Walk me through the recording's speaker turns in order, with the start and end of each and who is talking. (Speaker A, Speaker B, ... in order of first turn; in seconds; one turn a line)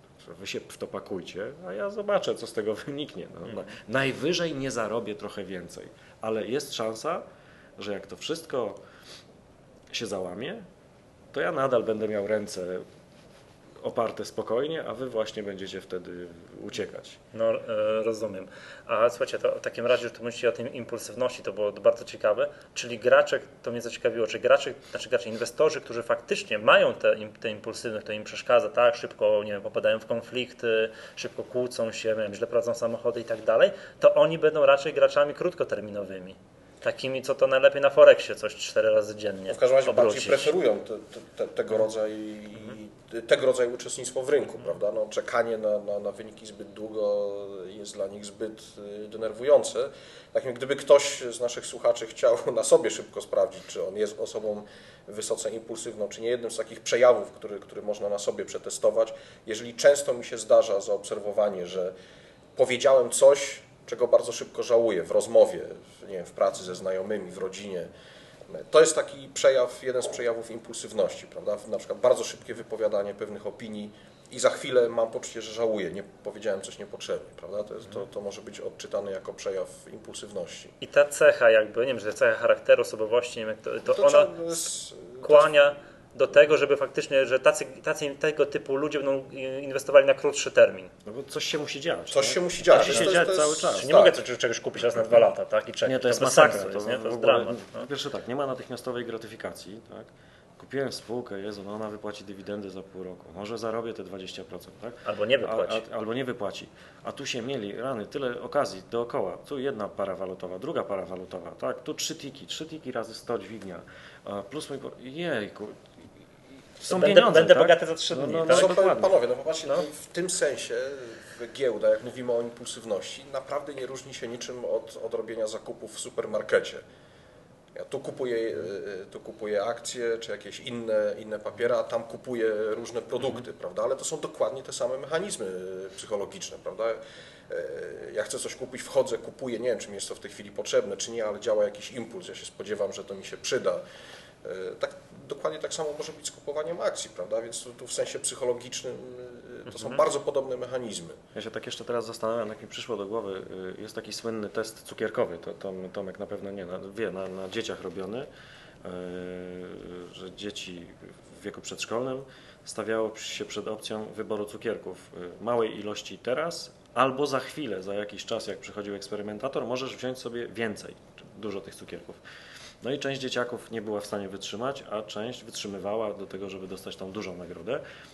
Speaker A: 0.2-7.2
Speaker A: 7.8-8.8
Speaker A: 9.9-10.7
Speaker A: 11.3-12.8
Speaker A: 13.8-17.2
Speaker B: 17.3-40.5
Speaker C: 39.5-61.9
Speaker C: 62.6-67.9
Speaker C: 68.5-80.8
Speaker B: 80.8-84.6
Speaker C: 83.9-85.6
Speaker B: 85.2-90.9
Speaker A: 91.1-94.0
Speaker C: 92.1-94.2
Speaker B: 92.7-97.9
Speaker A: 95.8-115.8
Speaker B: 105.0-105.8
Speaker A: 116.8-119.2
Speaker B: 116.9-118.7
Speaker C: 118.5-126.8
Speaker C: 127.8-143.8
Speaker C: 144.4-151.2
Speaker A: 151.3-158.3
Speaker A: 158.8-172.2
Speaker A: 172.8-177.8